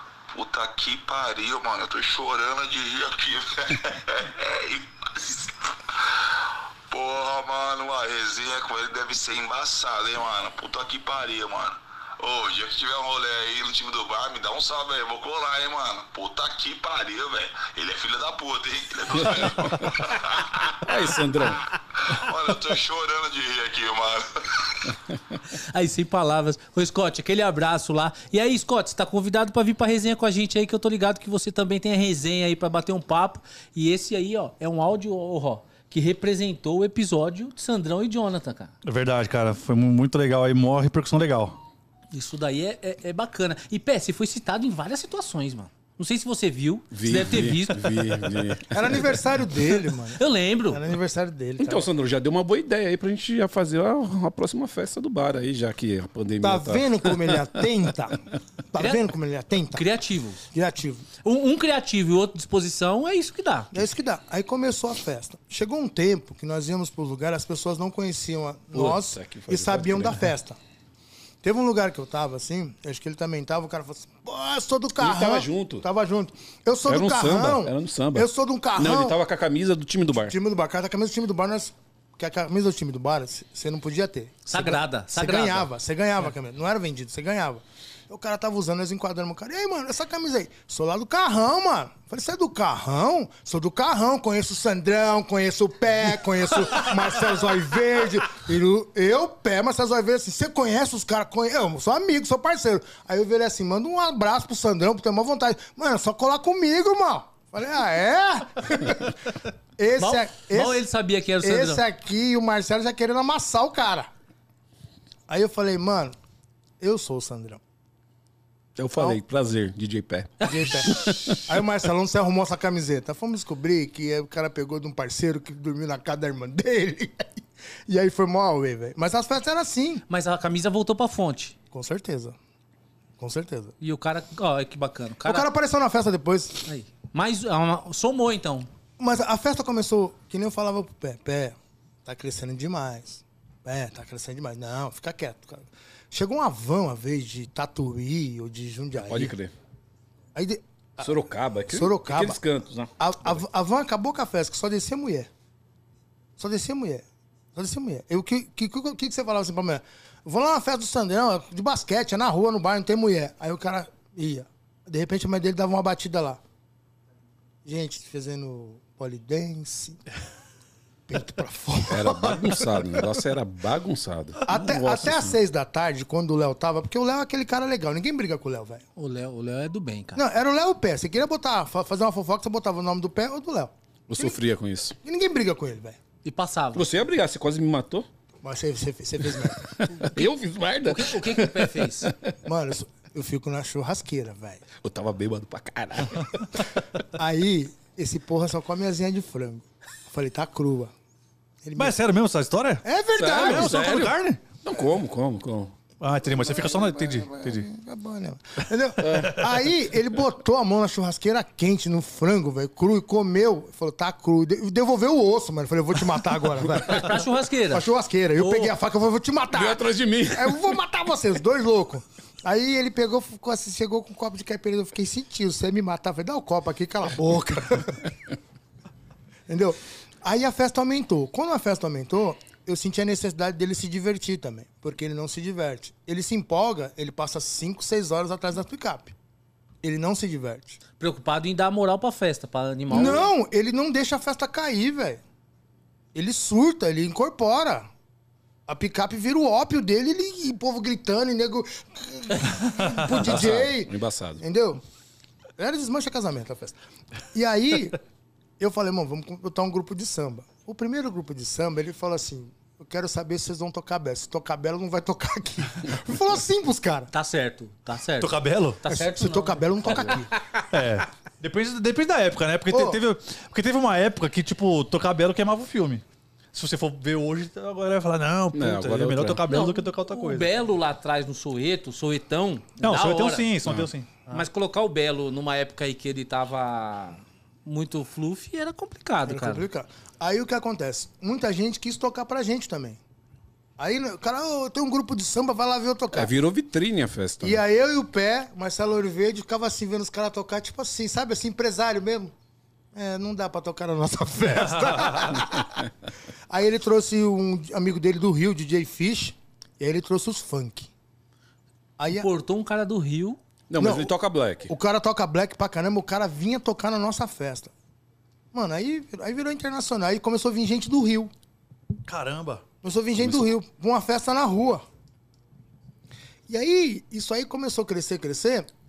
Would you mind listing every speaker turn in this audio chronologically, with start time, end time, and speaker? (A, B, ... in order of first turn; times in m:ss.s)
0:00.3-0:20.8 A
0:19.3-0:20.0 B
0:20.8-0:21.6 B
0:22.0-0:24.9 A
0:25.5-0:38.7 C
0:38.8-0:41.6 D
0:42.1-0:48.2 C
0:46.9-0:49.2 B
0:48.7-0:51.9 E
0:50.1-0:50.8 C
0:51.6-0:57.5 B
0:56.4-0:58.2 E
0:58.7-0:59.8 E
0:58.8-0:59.0 C
0:59.7-1:00.4 C
1:00.5-1:01.1 E
1:01.2-1:03.7 C
1:03.7-1:10.6 E
1:08.7-1:10.3 B
1:11.4-1:19.2 E
1:15.0-1:15.8 B
1:16.8-1:20.3 B
1:20.2-1:49.2 E
1:24.5-1:25.7 C
1:49.8-1:50.8 E
1:50.0-1:51.8 C
1:51.4-1:54.1 E
1:55.3-1:56.1 E
1:56.8-1:57.6 E
1:58.8-2:01.5 B
2:00.4-2:07.3 E
2:07.9-2:10.0 E
2:10.1-2:11.5 C
2:11.7-2:12.4 E
2:13.2-2:13.7 E
2:13.8-2:15.5 C
2:15.2-2:16.6 E
2:16.6-2:18.7 C
2:19.0-2:29.3 E
2:29.0-2:29.5 B
2:30.3-2:31.1 E
2:31.0-2:33.4 B
2:31.7-2:32.4 E
2:33.0-2:35.3 E
2:36.4-2:37.0 E
2:37.5-2:46.4 E
2:47.6-2:50.0 E
2:51.1-2:52.6 E
2:51.9-2:55.3 B
2:54.4-2:58.8 E
2:59.0-3:00.2 C
3:00.2-3:04.4 E
3:04.1-3:05.0 B
3:05.0-3:06.0 E
3:06.2-3:06.8 C
3:06.7-3:08.0 B
3:08.4-3:09.8 E
3:09.6-3:12.3 B
3:10.8-3:12.1 C
3:12.4-3:14.6 E
3:14.8-3:16.7 B
3:17.1-3:20.9 E
3:21.6-3:22.0 E
3:21.8-3:24.4 D
3:22.8-3:24.1 E
3:23.1-3:25.7 B
3:26.0-3:27.7 D
3:26.4-3:48.1 E
3:29.0-3:29.6 B
3:36.8-3:38.7 C
3:39.5-3:40.6 B
3:49.5-3:59.1 E
3:59.8-4:00.8 E
4:01.0-4:03.3 C
4:02.9-4:05.2 E
4:02.9-4:03.2 B
4:06.1-4:07.9 E
4:08.7-4:14.8 E
4:13.1-4:14.4 B
4:15.6-4:16.8 E
4:17.3-4:18.0 E
4:18.6-4:27.1 E
4:27.1-4:30.3 C
4:28.2-4:28.8 D
4:28.9-4:30.3 E
4:30.7-4:36.0 D
4:32.7-4:33.0 E
4:36.5-4:40.5 D
4:38.5-4:39.4 B
4:39.5-4:43.5 C
4:42.8-4:44.1 D
4:43.6-4:43.9 B
4:44.3-4:49.7 C
4:49.3-4:53.0 E
4:53.8-4:56.3 E
4:56.1-4:57.6 B
4:57.4-5:02.3 E
5:02.9-5:05.8 E
5:04.7-5:05.3 D
5:06.5-5:10.9 E
5:12.0-5:12.3 E
5:12.1-5:13.4 C
5:13.7-5:14.7 B
5:13.8-5:14.1 E
5:14.7-5:17.7 E
5:18.5-5:21.3 E
5:22.0-5:22.6 D
5:22.8-5:24.8 E
5:23.2-5:23.5 B
5:26.5-5:28.7 E